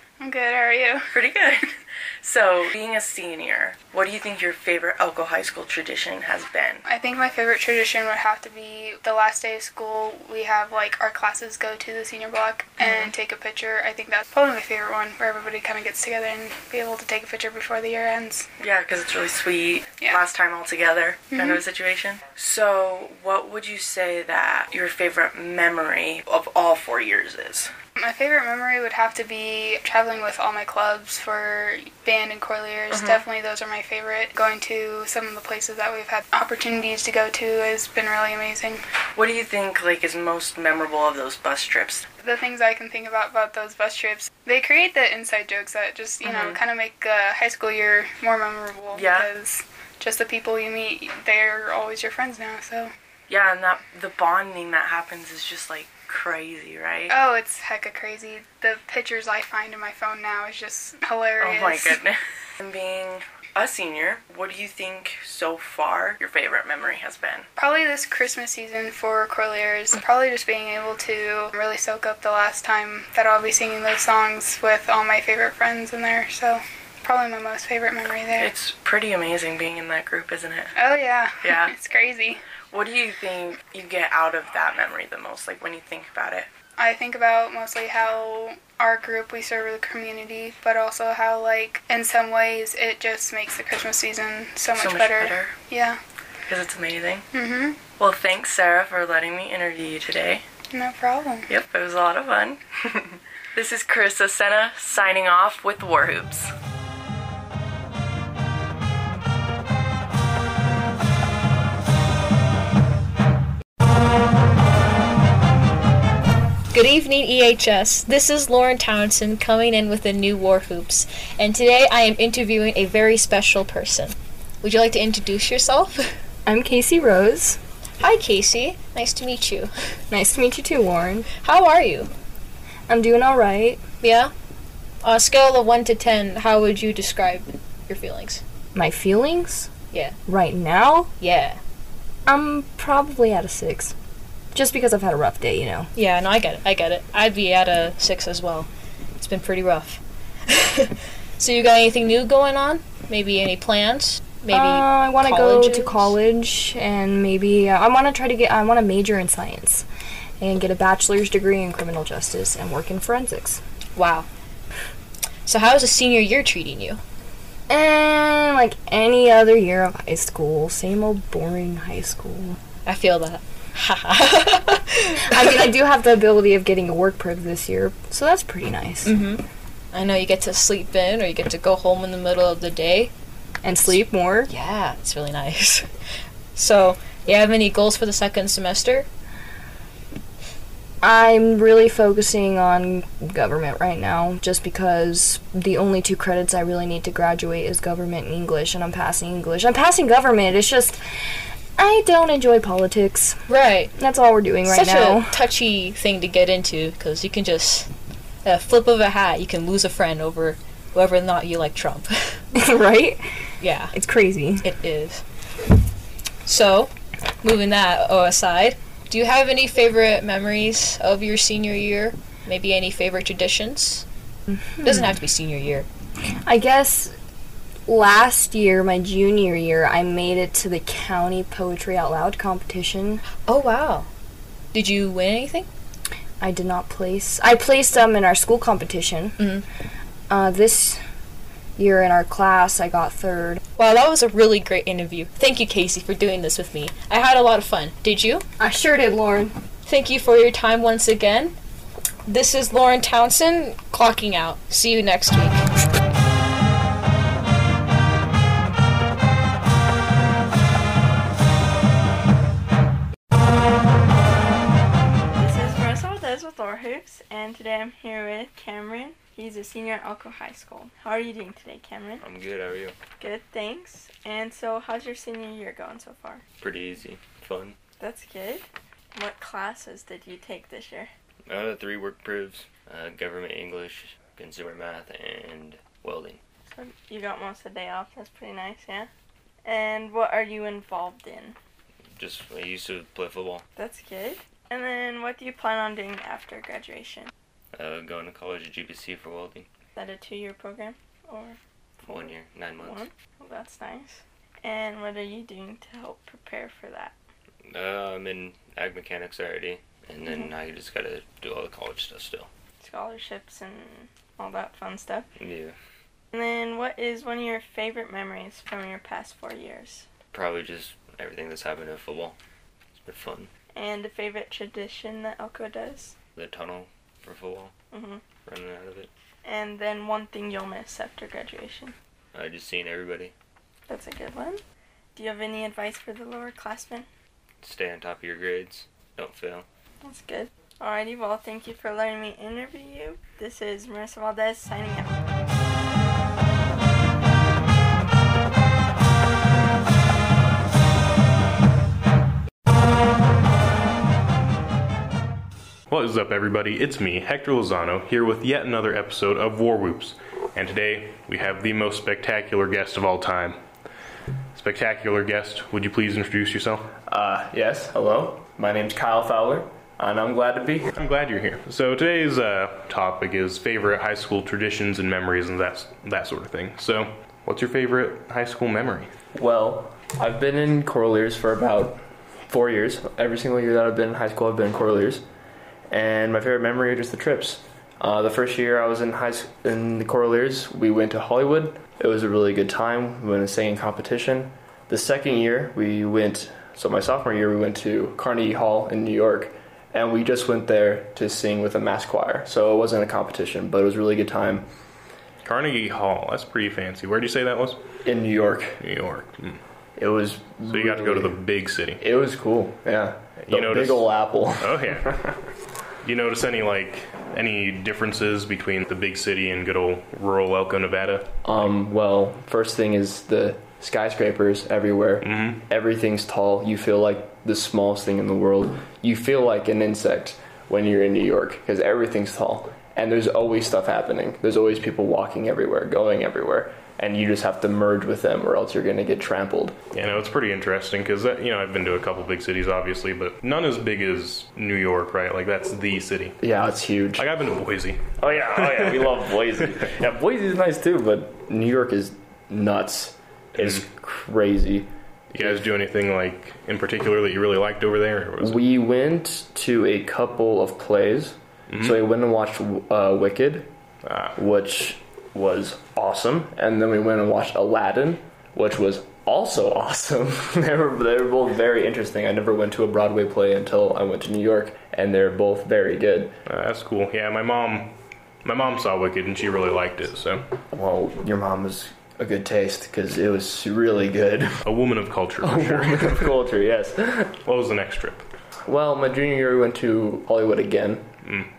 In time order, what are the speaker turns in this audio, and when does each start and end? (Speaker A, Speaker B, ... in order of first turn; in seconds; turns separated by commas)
Speaker A: 0.2-1.1, Speaker B: 1.1-1.7, Speaker B: 2.2-6.8, Speaker A: 6.9-18.5, Speaker B: 12.8-13.1, Speaker B: 18.6-27.7, Speaker A: 21.3-21.6, Speaker A: 28.0-38.8, Speaker B: 32.9-33.2, Speaker B: 39.1-42.1, Speaker A: 42.2-52.9, Speaker B: 46.2-46.6, Speaker B: 48.9-49.4, Speaker B: 53.3-57.2, Speaker A: 57.1-62.0, Speaker B: 61.4-67.5, Speaker A: 67.6-78.5, Speaker B: 78.3-80.7, Speaker A: 80.8-82.4, Speaker B: 81.4-81.7, Speaker B: 82.7-86.5, Speaker A: 86.8-96.0, Speaker B: 94.8-95.5, Speaker B: 96.5-97.3, Speaker A: 97.3-97.8, Speaker B: 97.8-100.5, Speaker A: 100.7-101.5, Speaker B: 101.5-106.5, Speaker C: 116.7-126.1, Speaker D: 126.5-127.6, Speaker C: 128.0-129.7, Speaker D: 130.1-131.3, Speaker C: 131.3-132.1, Speaker D: 132.9-133.8, Speaker C: 134.0-134.3, Speaker C: 135.0-138.4, Speaker D: 138.8-139.7, Speaker C: 139.9-140.2, Speaker D: 140.3-141.1, Speaker C: 141.2-141.6, Speaker D: 142.3-143.9, Speaker D: 144.5-145.9, Speaker C: 145.9-156.2, Speaker D: 154.5-159.9, Speaker D: 160.4-163.6, Speaker C: 163.9-164.3, Speaker C: 165.4-167.0, Speaker D: 167.7-172.6, Speaker C: 172.8-175.6, Speaker D: 175.3-179.1, Speaker C: 179.1-183.1, Speaker D: 183.6-184.5, Speaker C: 183.9-185.9, Speaker C: 186.5-189.1, Speaker D: 191.0-201.0, Speaker D: 201.8-203.4, Speaker C: 203.5-203.9, Speaker D: 204.0-205.3, Speaker C: 204.6-207.9, Speaker C: 208.4-212.4, Speaker D: 212.6-213.2, Speaker C: 213.6-213.9, Speaker D: 213.9-214.6, Speaker C: 214.6-215.2, Speaker C: 216.4-216.9, Speaker C: 217.4-224.1, Speaker C: 224.8-225.9, Speaker D: 226.4-227.1, Speaker D: 227.9-233.2, Speaker C: 233.4-234.1, Speaker C: 234.7-235.7, Speaker D: 236.4-239.4, Speaker C: 239.4-239.6, Speaker D: 240.3-241.0, Speaker D: 241.8-243.6, Speaker C: 243.8-248.4, Speaker D: 248.6-249.5, Speaker C: 249.8-251.6, Speaker C: 252.3-255.7, Speaker E: 265.4-272.2, Speaker F: 272.2-273.0, Speaker E: 273.2-276.4, Speaker F: 276.6-277.8, Speaker E: 278.0-281.1, Speaker F: 281.5-286.4, Speaker E: 286.7-289.1, Speaker E: 289.6-291.6, Speaker F: 292.1-293.6, Speaker E: 293.8-297.3, Speaker F: 297.7-299.7, Speaker E: 299.9-307.2, Speaker F: 302.1-303.1, Speaker F: 307.7-312.5, Speaker E: 312.8-315.3, Speaker F: 315.4-315.8, Speaker E: 316.3-320.1, Speaker F: 320.3-322.4, Speaker F: 322.9-323.5, Speaker E: 323.7-326.1, Speaker F: 326.4-327.7, Speaker E: 327.9-328.3, Speaker F: 328.3-329.1, Speaker E: 329.4-331.9, Speaker F: 332.4-333.3, Speaker E: 333.9-334.6, Speaker E: 335.1-337.1, Speaker F: 337.6-339.7, Speaker E: 340.0-345.1, Speaker G: 355.9-363.6, Speaker G: 364.6-366.9, Speaker H: 367.1-370.9, Speaker G: 370.9-379.1, Speaker H: 379.4-385.2, Speaker H: 385.9-404.7, Speaker G: 405.4-407.8, Speaker H: 408.1-408.8, Speaker G: 408.8-409.6, Speaker H: 410.0-411.4, Speaker G: 410.7-412.0, Speaker H: 412.0-415.3, Speaker G: 413.5-415.2, Speaker G: 416.0-421.7, Speaker H: 421.4-439.8, Speaker G: 425.2-425.6, Speaker G: 439.9-446.4, Speaker H: 446.4-447.3, Speaker G: 447.2-449.2, Speaker H: 448.2-454.9, Speaker G: 453.6-453.8, Speaker G: 455.3-458.6, Speaker H: 458.4-463.7, Speaker G: 461.7-462.0, Speaker G: 464.1-464.4, Speaker H: 464.4-476.4, Speaker G: 476.5-480.5, Speaker H: 480.7-484.7, Speaker G: 484.6-486.3, Speaker H: 485.4-487.4, Speaker G: 487.4-488.3, Speaker H: 488.7-491.1, Speaker G: 491.2-491.5